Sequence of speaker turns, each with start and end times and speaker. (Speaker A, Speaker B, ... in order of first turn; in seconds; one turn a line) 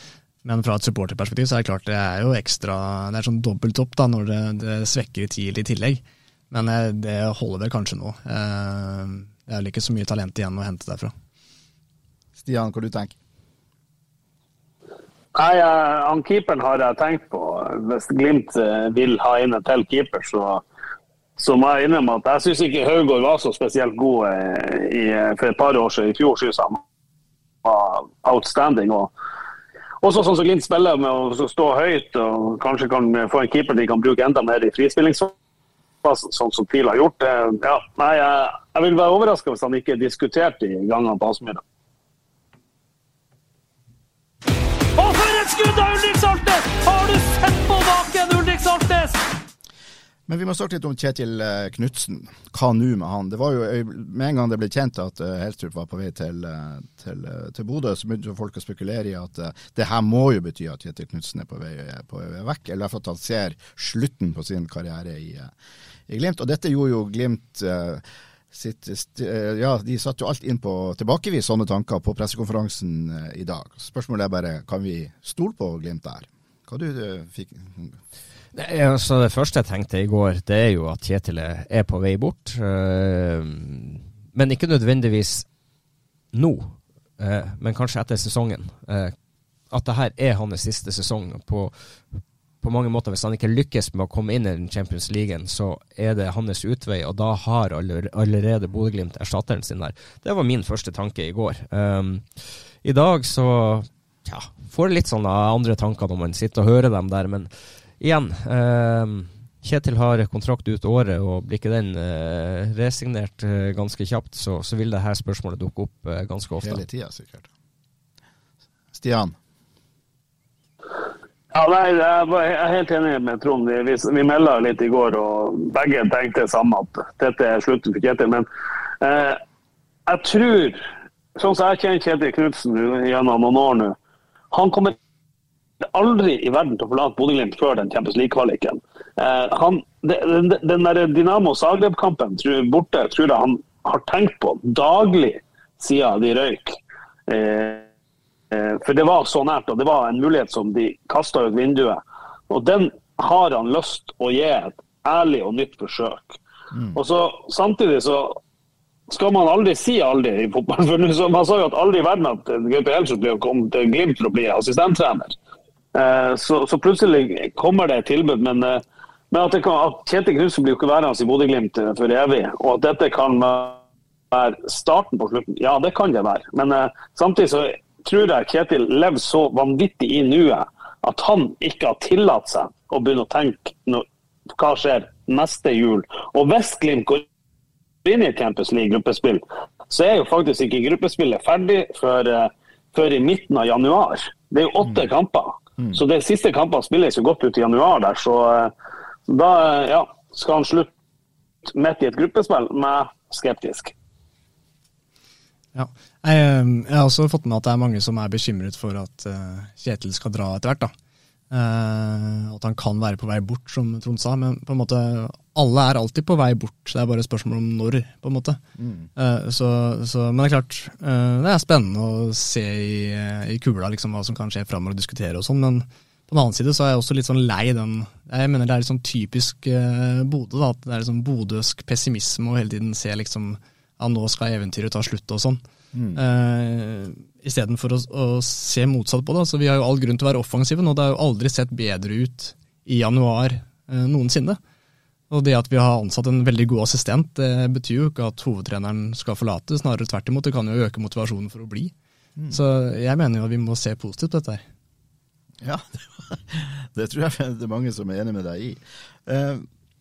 Speaker A: 0.4-11.1
Speaker B: 12.4-13.2
Speaker C: 15.3-20.6
Speaker C: 21.4-26.8
Speaker C: 27.6-29.1
Speaker C: 30.0-35.3
Speaker C: 36.0-41.6
Speaker D: 45.0-49.2
Speaker B: 50.3-65.5
Speaker B: 66.1-78.0
Speaker E: 78.5-85.5
Speaker E: 86.3-89.1
Speaker E: 89.7-116.8
Speaker B: 116.6-117.5
Speaker B: 118.9-119.3
Speaker C: 121.5-128.5
Speaker C: 129.0-129.4
Speaker C: 130.1-130.8
Speaker C: 131.4-134.0
Speaker C: 134.5-135.0
Speaker C: 135.9-146.8
Speaker C: 147.3-147.9
Speaker C: 148.5-156.4
Speaker B: 156.7-157.0
Speaker C: 156.9-158.4
Speaker C: 159.1-165.3
Speaker C: 165.9-173.8
Speaker C: 174.3-184.1
Speaker C: 184.6-187.3
Speaker C: 188.1-198.7
Speaker C: 199.3-200.9
Speaker C: 201.7-203.9
Speaker A: 205.8-210.9
Speaker A: 211.5-218.6
Speaker B: 218.8-219.1
Speaker A: 219.2-235.6
Speaker B: 235.9-236.2
Speaker A: 236.2-244.6
Speaker A: 245.3-251.9
Speaker A: 252.5-254.6
Speaker B: 255.6-259.7